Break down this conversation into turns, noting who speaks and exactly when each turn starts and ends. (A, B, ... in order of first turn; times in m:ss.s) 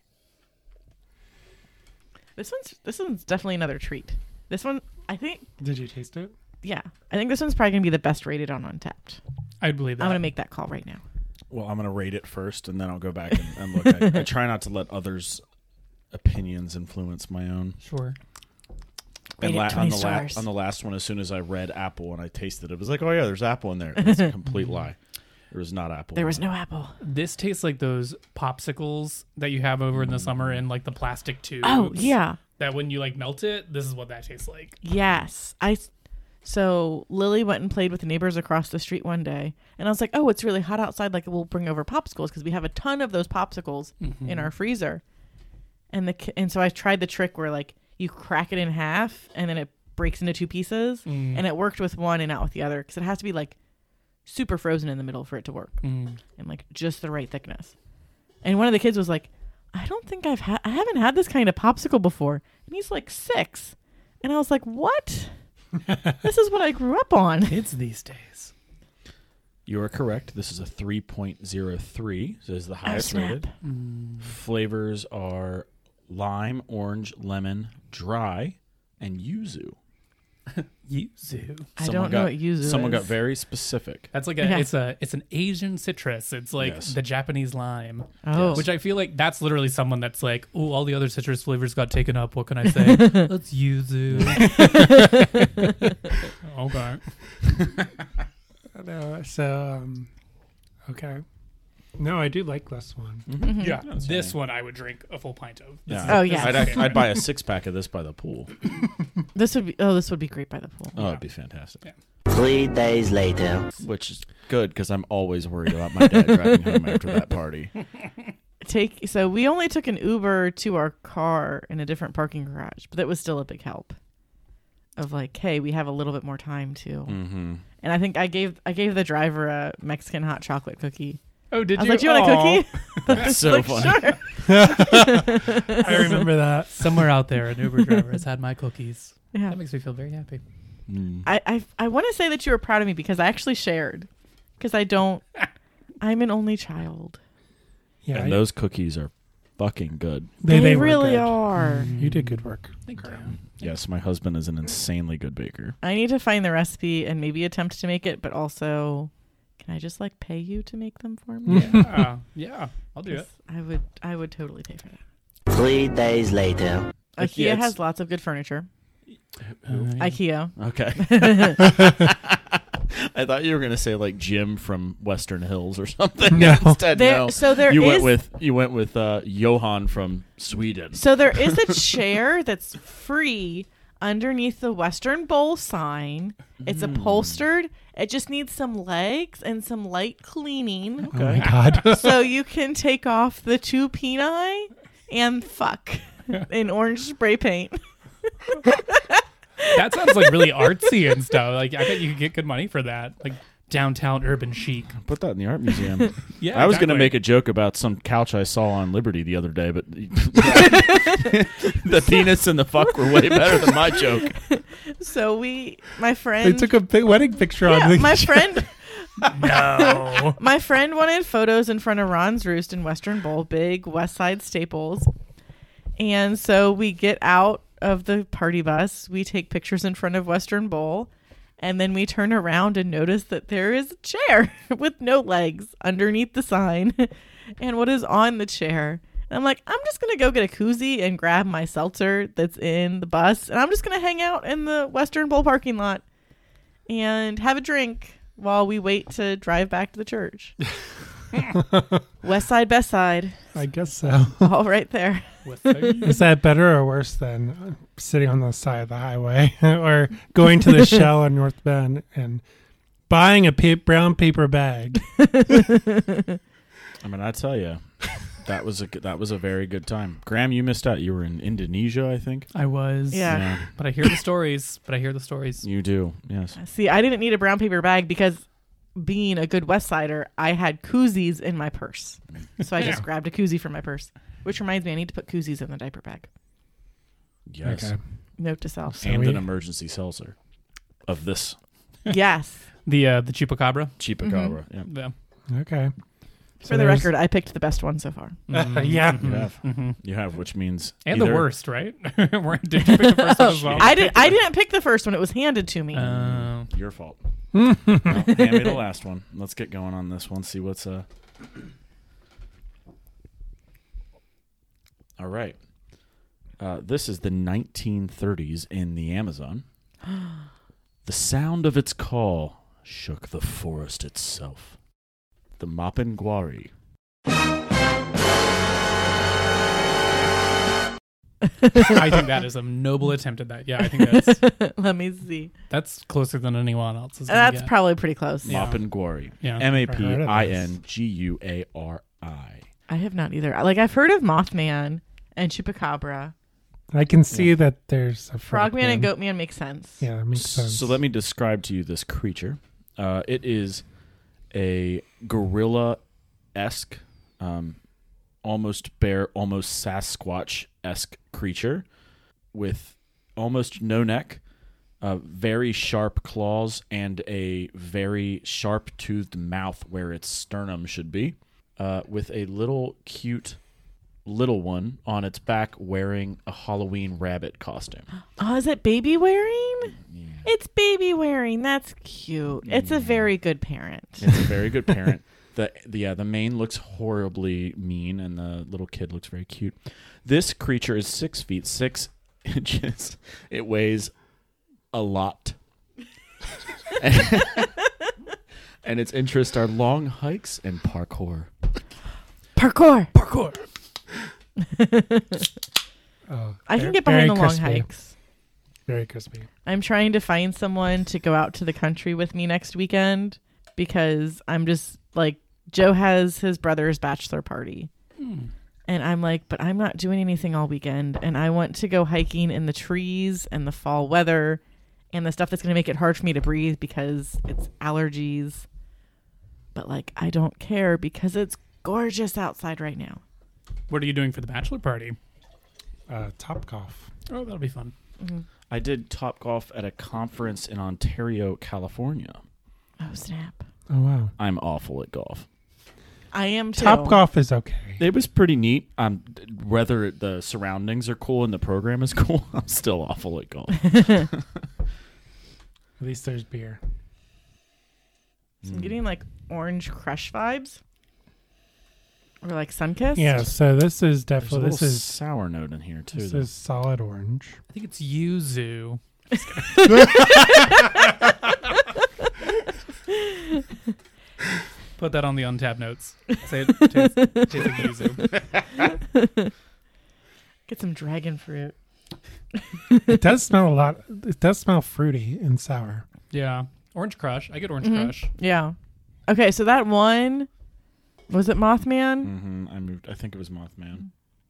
0:02.4-0:05.4 A
0:05.6-0:06.3 B
0:06.6-0:09.2 A
0:09.6-0:10.2 C
0:10.0-0:11.0 A
0:11.5-0:15.4 D
0:16.1-0:17.8 D
0:17.8-0:18.2 C
0:19.4-0:25.0 D
0:19.4-0:20.4 A
0:25.5-0:26.4 D
0:26.1-0:27.0 A
0:27.0-0:34.8 C
0:29.9-0:30.6 D
0:31.6-0:32.4 A
0:34.8-0:35.9 A
0:36.4-0:45.0 A
0:44.0-0:44.5 C
0:45.9-0:53.5 A
0:51.0-0:51.4 C
0:54.2-0:55.7 A
0:55.8-0:56.2 C
0:56.4-0:57.7 A
0:58.4-1:05.3 A
1:06.1-1:07.6 A
1:07.5-1:08.5 C
1:09.6-1:13.5 D
1:12.8-1:13.5 A
1:13.6-1:14.3 C
1:14.2-1:19.8 D
1:20.5-1:21.7 C
1:21.8-1:23.1 A
1:21.8-1:24.1 D
1:24.1-1:35.4 C
1:24.4-1:24.7 A
1:26.6-1:27.0 D
1:28.2-1:28.6 A
1:28.3-1:28.7 D
1:34.1-1:34.5 D
1:34.4-1:35.1 A
1:36.4-1:37.0 C
1:38.7-1:40.1 B
1:40.8-1:41.2 B
1:42.0-1:43.3 B
1:43.3-1:44.3 D
1:43.4-1:43.8 A
1:43.6-1:47.1 C
1:45.9-1:48.6 D
1:46.0-1:47.1 A
1:49.3-1:51.0 A
1:51.0-1:51.8 D
1:52.3-1:53.7 E
1:53.8-1:57.7 D
1:58.6-2:03.9 A
2:05.0-2:11.2 A
2:07.0-2:07.6 D
2:11.5-2:13.9 C
2:11.7-2:16.3 A
2:13.1-2:14.2 D
2:14.4-2:17.1 B
2:15.8-2:20.4 C
2:20.9-2:21.3 D
2:21.2-2:24.1 A
2:24.6-2:25.2 A
2:26.0-2:27.2 A
2:28.0-2:28.4 B
2:28.1-2:30.3 D
2:30.4-2:32.8 B
2:30.5-2:31.9 A
2:31.6-2:32.3 C
2:32.8-2:33.3 C
2:33.5-2:35.8 D
2:35.8-2:41.8 A
2:41.4-2:42.0 B
2:41.5-2:43.3 C
2:43.0-2:45.0 A
2:45.5-2:46.9 E
2:47.2-2:47.8 D
2:47.2-2:48.7 A
2:49.5-2:49.9 D
2:49.7-2:50.2 C
2:50.0-2:51.7 A
2:50.6-3:01.8 D
2:56.3-2:56.8 B
2:56.9-2:58.2 A
3:00.9-3:11.1 A
3:06.6-3:07.4 D
3:11.0-3:11.6 D
3:11.1-3:12.2 B
3:11.4-3:11.8 C
3:11.8-3:17.8 A
3:18.5-3:20.7 A
3:19.7-3:25.0 C
3:25.0-3:34.4 D
3:26.4-3:27.2 C
3:30.6-3:31.3 A
3:33.2-3:36.8 A
3:36.4-3:38.6 B
3:37.6-3:45.1 A
3:39.3-3:40.4 C
3:46.0-4:06.0 A
4:06.9-4:10.5 A
4:11.4-4:12.0 B
4:12.2-4:13.4 A
4:13.5-4:14.5 B
4:14.4-4:15.4 A
4:15.4-4:16.2 C
4:16.0-4:22.4 B
4:23.1-4:25.1 B
4:25.4-4:26.1 A
4:27.0-4:32.5 D
4:32.5-4:35.6 C
4:33.1-4:33.5 A
4:33.3-4:33.7 D
4:35.6-4:36.6 D
4:36.6-4:38.4 A
4:39.0-4:46.3 A
4:47.4-4:47.9 D
4:47.6-4:48.0 B
4:48.4-4:49.1 A
4:49.0-4:49.4 B
4:49.0-4:50.3 D
4:51.0-4:51.6 D
4:52.0-4:52.6 A
4:52.8-4:54.0 C
4:54.0-4:54.9 D
4:54.2-4:54.6 A
4:54.8-4:55.1 C
4:55.5-4:55.9 B
4:56.6-4:58.4 A
4:56.6-4:57.1 B
4:58.5-5:00.0 C
4:58.5-4:59.5 B
4:59.1-5:01.5 D
5:01.0-5:04.1 C
5:02.8-5:06.1 A
5:03.6-5:04.4 D
5:05.9-5:06.7 C
5:06.0-5:11.0 D
5:07.5-5:08.3 B
5:15.2-5:15.6 D
5:16.6-5:19.6 D
5:21.0-5:24.8 D
5:25.6-5:26.7 D
5:31.6-5:31.9 A
5:31.8-5:34.4 C
5:33.9-5:35.5 A
5:35.7-5:37.7 C
5:37.3-5:38.6 A
5:38.4-5:39.7 C
5:38.5-5:42.6 D
5:39.8-5:40.6 B
5:42.9-5:46.3 A
5:46.9-5:49.1 B
5:48.5-5:50.1 A
5:50.0-5:51.0 B
5:50.3-5:53.8 D
5:54.5-5:56.0 D
5:56.5-5:57.8 D
5:58.4-6:01.8 D
6:02.5-6:04.4 D
6:05.0-6:13.6 D
6:14.2-6:18.1 D
6:18.4-6:24.5 A
6:20.0-6:20.4 D
6:22.6-6:23.3 D
6:24.2-6:34.1 D
6:34.9-6:35.6 D
6:36.9-6:37.8 D
6:38.8-6:41.5 D
6:42.6-6:43.1 A
6:44.6-6:45.5 A
6:46.3-6:47.9 B
6:46.7-6:48.1 A
6:48.8-6:49.5 B
6:49.6-6:57.9 A
6:58.2-6:58.5 C
6:58.9-7:04.6 A
7:05.1-7:08.6 A
7:09.7-7:13.2 A
7:13.9-7:15.2 C
7:16.1-7:17.1 B
7:17.3-7:17.9 C
7:18.7-7:22.4 D
7:23.0-7:23.6 A
7:23.9-7:24.3 B
7:24.4-7:25.4 D
7:26.3-7:27.2 A
7:26.7-7:28.0 B
7:28.0-7:34.4 D
7:36.0-7:36.8 B
7:38.6-7:39.0 D
7:38.6-7:40.8 A
7:42.4-7:43.5 A
7:43.2-7:45.1 B
7:44.4-7:46.5 D
7:46.1-7:47.6 B
7:47.7-7:50.2 C
7:49.8-7:50.8 A
7:55.0-7:58.3 C
7:59.0-7:59.5 A
8:00.7-8:01.7 A
8:03.1-8:06.0 B
8:06.3-8:08.3 C
8:07.8-8:08.7 A
8:09.3-8:10.5 A
8:11.3-8:12.3 A
8:12.2-8:14.0 D